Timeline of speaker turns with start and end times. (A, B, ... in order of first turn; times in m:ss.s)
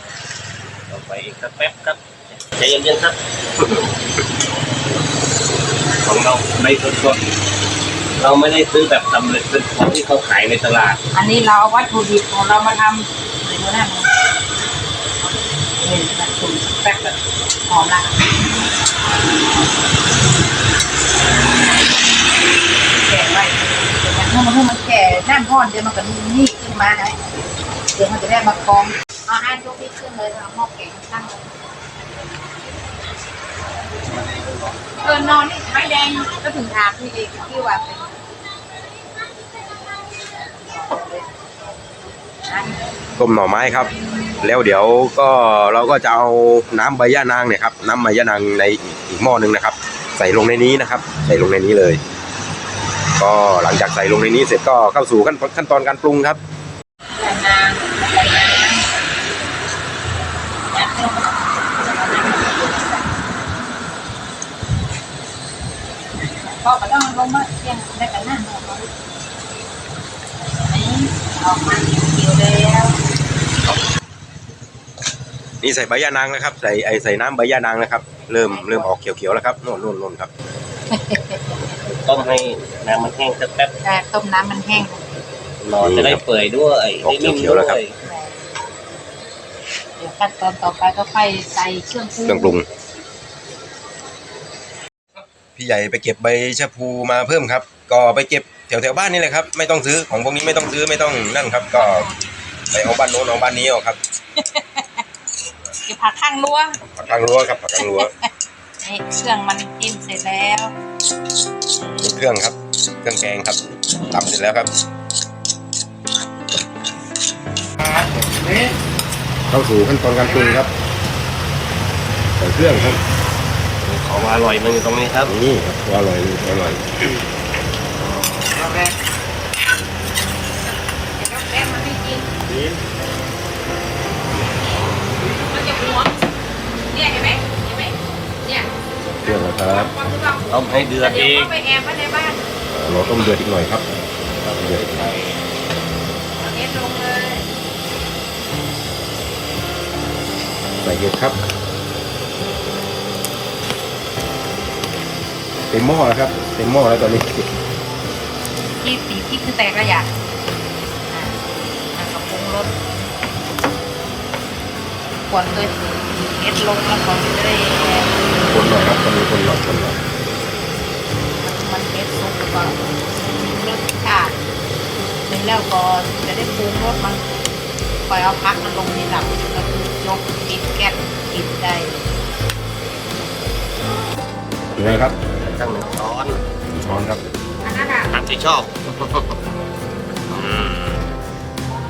0:00.9-0:03.9 A
0:06.0-0:07.2 A
0:08.2-0:11.0 A
0:11.1-0:14.1 B
0:15.8-0:18.2 B
0:23.0-0:27.2 B
0:27.9-0:31.6 B
0:35.0-0:38.1 B
0:40.5-0:41.4 B
0:42.4-0:42.8 B
0:43.2-0:52.0 C
0:53.2-0:56.4 C
0:57.2-0:59.0 B
1:00.7-1:03.1 B
1:06.4-1:08.9 B
1:10.7-1:13.0 B
1:15.6-1:20.3 C
1:18.4-1:18.9 B
1:20.9-1:21.6 B
1:21.8-1:23.7 A
1:23.8-1:25.0 B
1:25.6-1:27.9 A
1:25.8-1:26.2 C
1:27.0-1:27.8 C
1:28.0-1:28.4 B
1:30.0-1:32.6 B
1:32.2-1:32.6 C
1:35.6-1:42.1 C
1:41.7-1:42.3 B
1:42.7-1:44.0 C
1:44.4-1:45.0 B
1:45.8-1:46.8 B
1:46.9-1:48.1 C
1:47.8-1:48.1 B
1:48.8-1:50.7 B
1:52.0-1:54.7 C
1:58.3-1:58.6 A
1:59.5-2:00.7 C
2:02.4-2:03.0 C
2:03.8-2:05.3 A
2:05.2-2:06.8 C
2:11.2-2:12.2 B
2:15.2-2:16.1 B
2:16.9-2:18.7 B
2:19.2-2:19.9 C
2:19.2-2:22.4 B
2:20.5-2:21.5 A
2:22.7-2:23.8 C
2:24.4-2:25.4 A
2:24.6-2:25.1 C
2:26.4-2:27.4 B
2:30.8-2:31.4 C
2:35.7-2:37.5 C
2:38.8-2:40.1 B
2:41.1-2:41.4 B
2:41.9-2:42.7 B
2:45.3-2:48.2 B
2:48.5-2:50.0 C
2:51.4-2:54.4 B
2:55.3-2:57.2 B
2:58.1-3:02.0 B
3:04.8-3:05.1 C
3:04.8-3:06.4 A
3:06.7-3:07.2 C
3:07.6-3:08.1 B
3:08.1-3:09.4 A
3:10.3-3:11.0 A